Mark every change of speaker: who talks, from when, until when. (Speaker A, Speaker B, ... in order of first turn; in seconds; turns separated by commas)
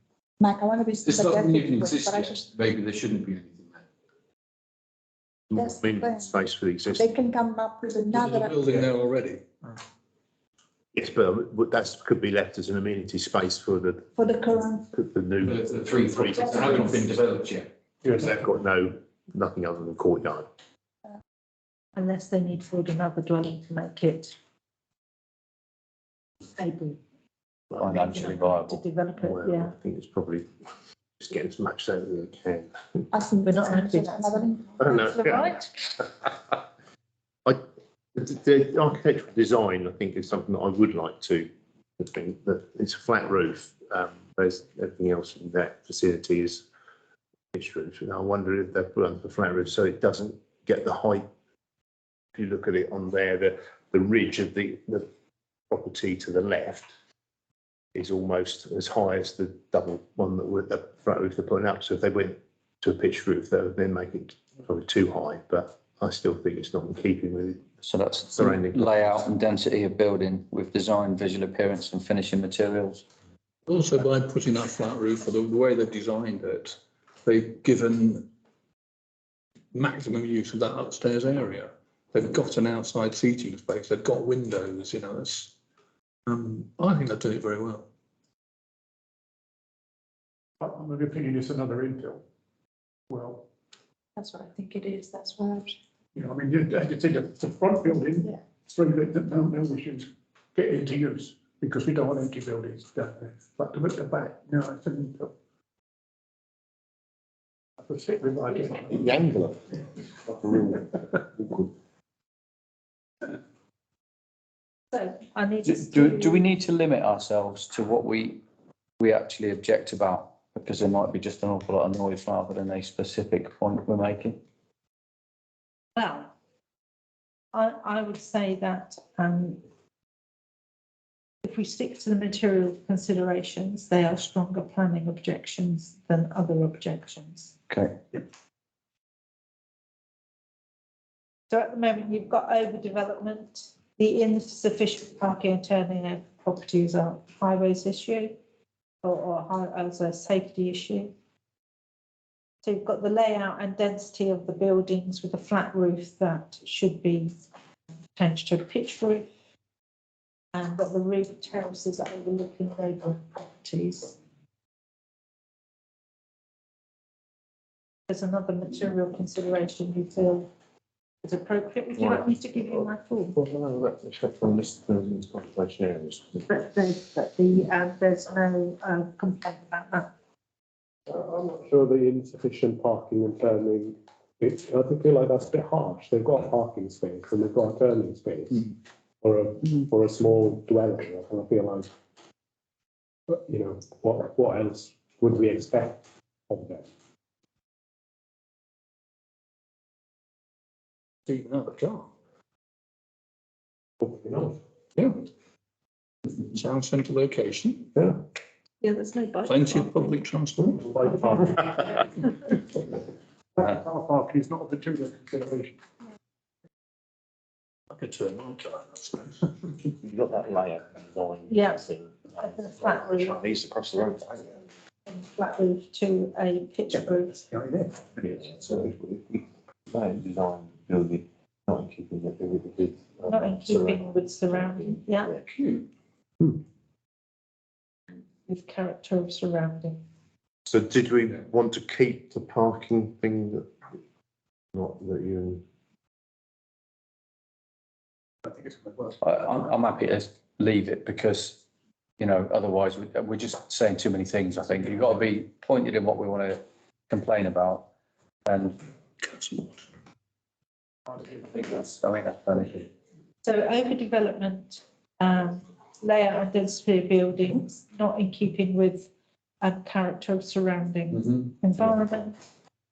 Speaker A: 0.4-2.5, Speaker B: 1.2-3.8, Speaker C: 5.5-7.1, Speaker A: 5.5-6.3, Speaker A: 6.9-8.6, Speaker D: 8.1-9.8, Speaker C: 10.9-14.1, Speaker A: 14.1-14.9, Speaker C: 14.9-17.0, Speaker B: 15.4-17.7, Speaker C: 18.1-20.4, Speaker E: 21.9-24.3, Speaker E: 26.6-27.0, Speaker C: 27.7-28.3, Speaker F: 27.8-28.8, Speaker E: 27.8-29.7, Speaker C: 29.1-30.5, Speaker C: 31.2-33.0, Speaker A: 33.1-35.1, Speaker E: 33.4-34.5, Speaker C: 34.8-36.5, Speaker E: 35.0-35.7, Speaker C: 38.1-46.6, Speaker C: 47.5-51.3, Speaker C: 52.3-55.0, Speaker C: 55.7-56.9, Speaker C: 57.9-67.7, Speaker F: 67.8-73.0, Speaker C: 68.3-69.2, Speaker D: 73.7-78.2, Speaker D: 79.7-85.5, Speaker D: 86.3-87.9, Speaker G: 90.6-92.2, Speaker G: 93.1-93.5, Speaker A: 94.2-95.7, Speaker G: 96.1-105.3, Speaker G: 107.8-109.1, Speaker C: 108.9-111.7, Speaker E: 114.9-116.5, Speaker F: 115.7-118.4, Speaker F: 119.0-124.4, Speaker E: 126.0-126.3, Speaker E: 127.5-129.6, Speaker E: 131.4-137.6, Speaker F: 137.7-138.0, Speaker E: 141.5-148.4, Speaker E: 149.0-151.1, Speaker E: 152.6-157.3, Speaker E: 158.2-159.3, Speaker E: 160.5-164.2, Speaker E: 168.1-170.5, Speaker E: 171.2-173.4, Speaker C: 172.0-176.4, Speaker E: 176.5-180.1, Speaker H: 181.1-188.7, Speaker H: 189.2-191.9, Speaker H: 193.3-196.8, Speaker D: 201.3-202.1, Speaker C: 204.2-204.5, Speaker D: 204.9-205.2, Speaker D: 206.4-207.9, Speaker E: 208.8-209.5, Speaker D: 209.4-210.9, Speaker G: 210.8-212.1, Speaker G: 213.6-215.8, Speaker D: 217.9-219.5, Speaker C: 220.0-224.6, Speaker E: 221.5-221.8, Speaker E: 222.4-223.4, Speaker E: 225.1-227.4, Speaker G: 226.9-228.5, Speaker C: 228.2-235.5, Speaker E: 233.3-235.4, Speaker E: 238.3-240.0, Speaker C: 240.7-243.7, Speaker C: 244.7-245.6, Speaker F: 249.2-251.6, Speaker F: 252.2-257.9, Speaker F: 258.4-258.8, Speaker D: 259.2-259.8, Speaker G: 261.1-261.4, Speaker F: 261.3-262.9, Speaker E: 263.4-269.1, Speaker E: 269.6-272.4